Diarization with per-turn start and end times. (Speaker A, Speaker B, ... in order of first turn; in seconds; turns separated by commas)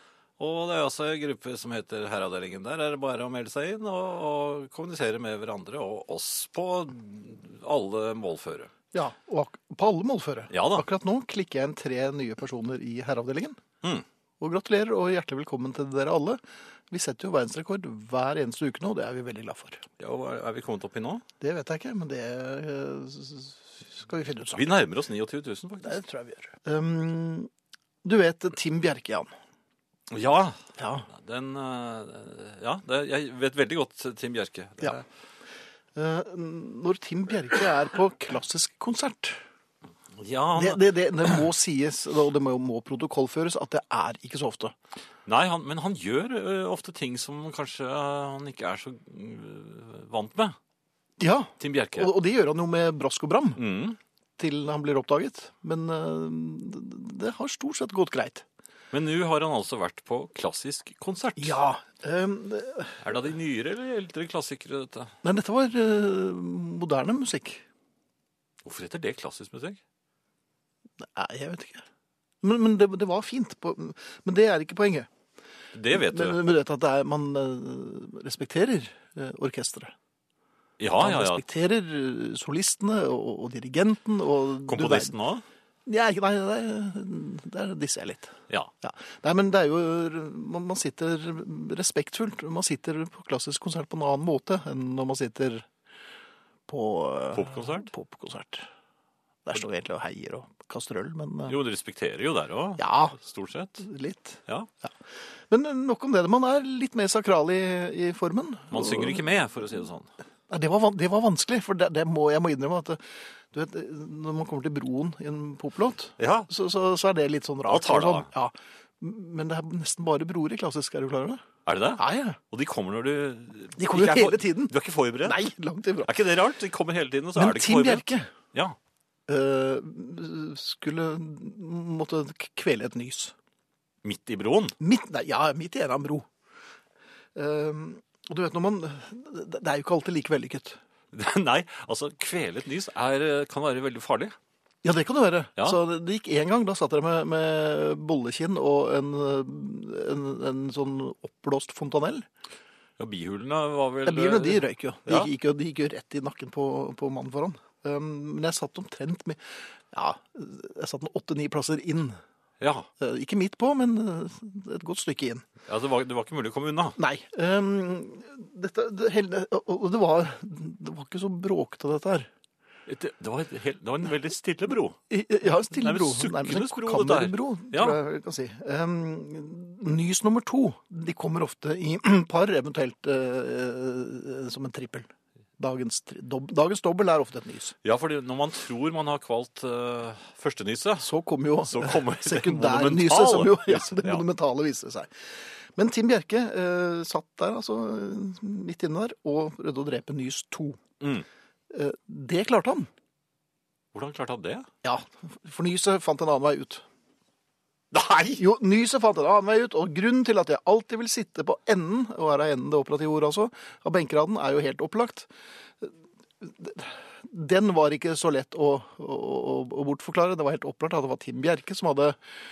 Speaker A: 0.4-8.7, Speaker B: 8.9-13.6, Speaker A: 10.5-10.9, Speaker B: 14.4-19.9, Speaker A: 20.0-21.2, Speaker B: 21.4-24.6, Speaker A: 24.5-26.0, Speaker B: 25.8-27.5, Speaker B: 28.0-29.3, Speaker A: 30.1-30.6, Speaker B: 30.8-31.1, Speaker A: 31.1-35.0, Speaker B: 35.9-39.4, Speaker A: 40.1-40.9, Speaker B: 40.6-44.7, Speaker A: 45.2-50.6, Speaker B: 51.2-53.6, Speaker A: 51.6-52.1, Speaker A: 53.6-54.0, Speaker B: 54.4-58.4, Speaker A: 58.9-61.6, Speaker B: 61.4-63.0, Speaker A: 63.0-65.2, Speaker B: 65.2-67.7, Speaker A: 68.6-69.8, Speaker B: 71.0-71.9, Speaker B: 72.4-75.1, Speaker A: 75.7-76.4, Speaker B: 75.9-79.9, Speaker A: 80.8-81.4, Speaker B: 81.0-85.1, Speaker A: 84.7-85.4, Speaker B: 85.9-95.7, Speaker B: 96.7-98.7, Speaker A: 97.3-97.9, Speaker B: 99.5-101.6, Speaker A: 101.5-103.8, Speaker B: 102.8-103.2, Speaker B: 103.8-104.9, Speaker B: 105.5-109.2, Speaker A: 108.7-110.1, Speaker B: 110.5-121.4, Speaker A: 116.2-116.5, Speaker A: 117.7-118.3, Speaker A: 121.7-125.4, Speaker B: 122.0-122.4, Speaker B: 123.8-126.1, Speaker A: 126.0-128.8, Speaker B: 127.3-128.3, Speaker B: 129.3-133.3, Speaker A: 134.0-134.8, Speaker B: 134.8-136.3, Speaker B: 137.3-140.8, Speaker A: 141.1-144.4, Speaker B: 144.8-152.2, Speaker A: 153.0-155.3, Speaker B: 154.1-162.2, Speaker A: 162.6-162.9, Speaker B: 163.0-165.5, Speaker A: 165.6-167.0, Speaker B: 167.0-172.3, Speaker A: 172.9-175.0, Speaker B: 175.1-187.8, Speaker A: 175.7-178.0, Speaker A: 187.8-191.1, Speaker B: 191.0-200.8, Speaker A: 191.7-194.2, Speaker A: 201.0-201.2, Speaker B: 201.7-202.9, Speaker A: 203.9-204.7, Speaker B: 204.8-206.8, Speaker A: 207.9-208.4, Speaker B: 208.4-215.3, Speaker B: 215.8-222.2